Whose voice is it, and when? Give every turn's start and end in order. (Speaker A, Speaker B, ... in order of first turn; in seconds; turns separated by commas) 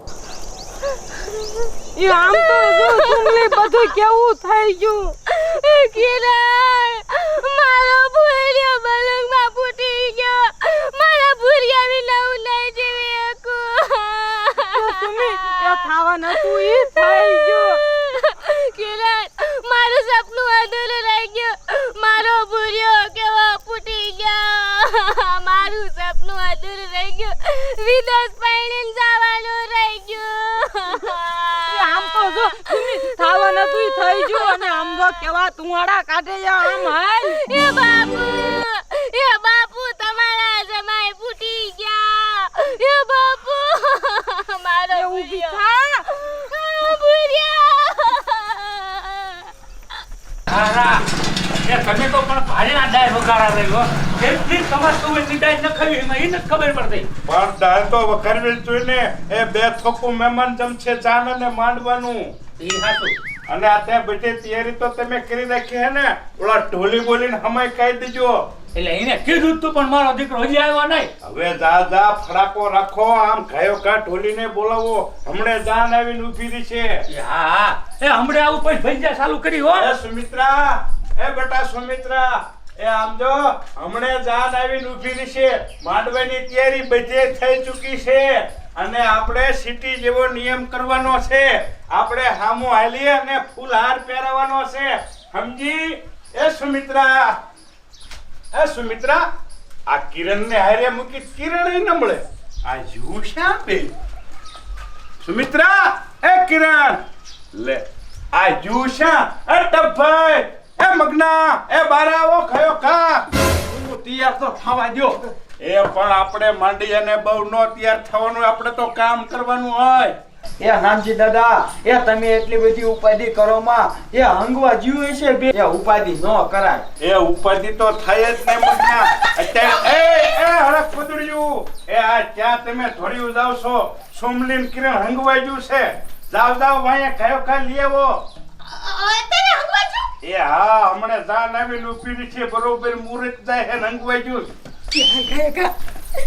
Speaker A: 2.0-5.1, Speaker B: 2.0-3.9, Speaker B: 5.2-35.2, Speaker A: 14.8-17.3, Speaker A: 31.7-36.8, Speaker B: 36.7-49.5, Speaker A: 45.0-45.8, Speaker C: 50.5-51.0, Speaker C: 51.6-57.1, Speaker D: 57.3-62.3, Speaker C: 62.6-63.1, Speaker D: 63.5-68.4, Speaker C: 68.7-71.1, Speaker D: 71.2-76.9, Speaker C: 77.1-79.8, Speaker D: 79.7-97.3, Speaker D: 98.5-99.2, Speaker D: 99.9-103.9, Speaker D: 105.2-107.0, Speaker D: 107.5-113.2, Speaker E: 113.7-115.3, Speaker D: 115.6-120.1, Speaker E: 120.6-126.8, Speaker D: 127.0-138.1, Speaker D: 140.2-144.5, Speaker E: 144.9-145.7